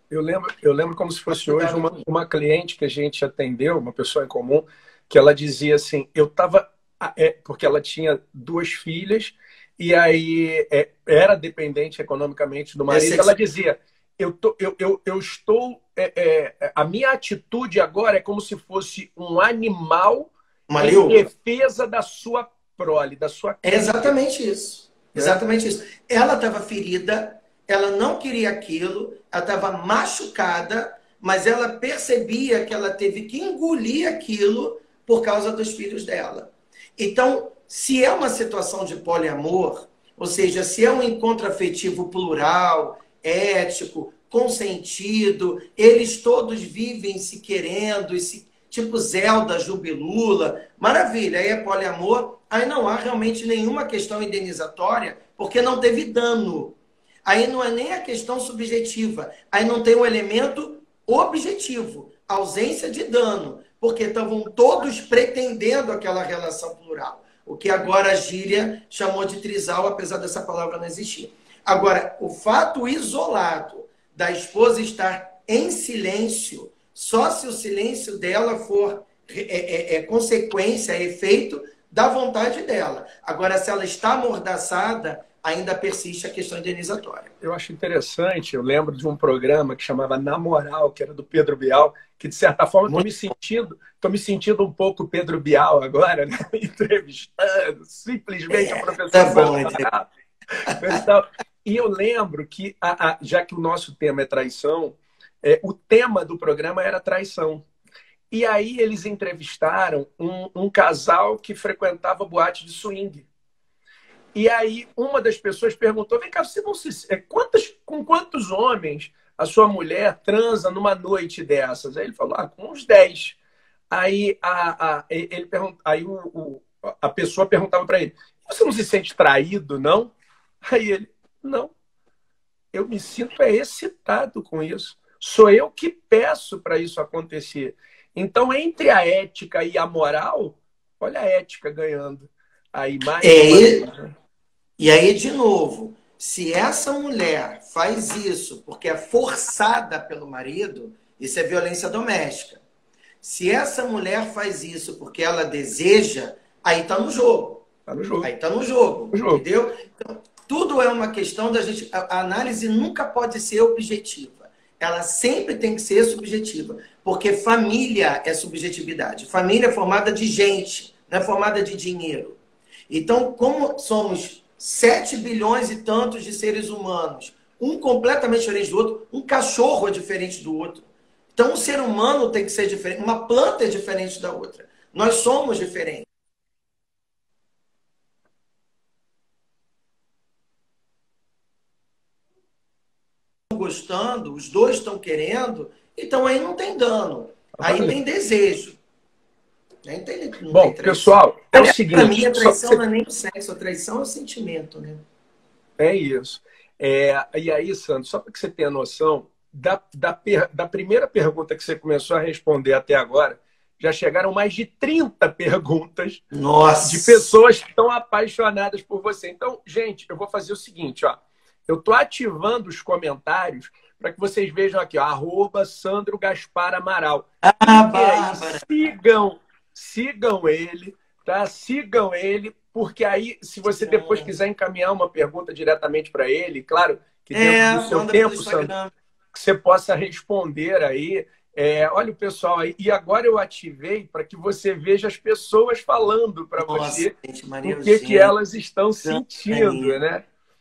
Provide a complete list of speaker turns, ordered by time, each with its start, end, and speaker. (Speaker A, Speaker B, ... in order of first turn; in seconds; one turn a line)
Speaker A: 0.1-24.2
Speaker B: 1.3-2.0
Speaker B: 12.9-13.3
Speaker B: 20.7-21.3
Speaker B: 23.6-87.3
Speaker A: 87.4-100.1
Speaker B: 98.5-99.9
Speaker A: 100.7-107.6
Speaker A: 108.3-113.3
Speaker A: 114.3-123.4
Speaker A: 123.9-131.7
Speaker A: 132.7-144.1
Speaker B: 143.2-143.8
Speaker B: 144.8-152.6
Speaker B: 153.2-157.7
Speaker A: 157.9-158.3
Speaker B: 158.2-172.4
Speaker A: 159.1-159.4
Speaker B: 172.9-186.1
Speaker B: 193.5-198.8
Speaker A: 197.6-198.0
Speaker B: 199.8-205.0
Speaker A: 200.5-202.8
Speaker A: 205.8-216.2
Speaker B: 216.3-217.2
Speaker A: 216.8-238.7
Speaker B: 227.4-228.9
Speaker B: 233.6-234.3
Speaker B: 237.3-238.9
Speaker A: 239.3-250.2
Speaker B: 246.6-248.3
Speaker B: 249.0-250.0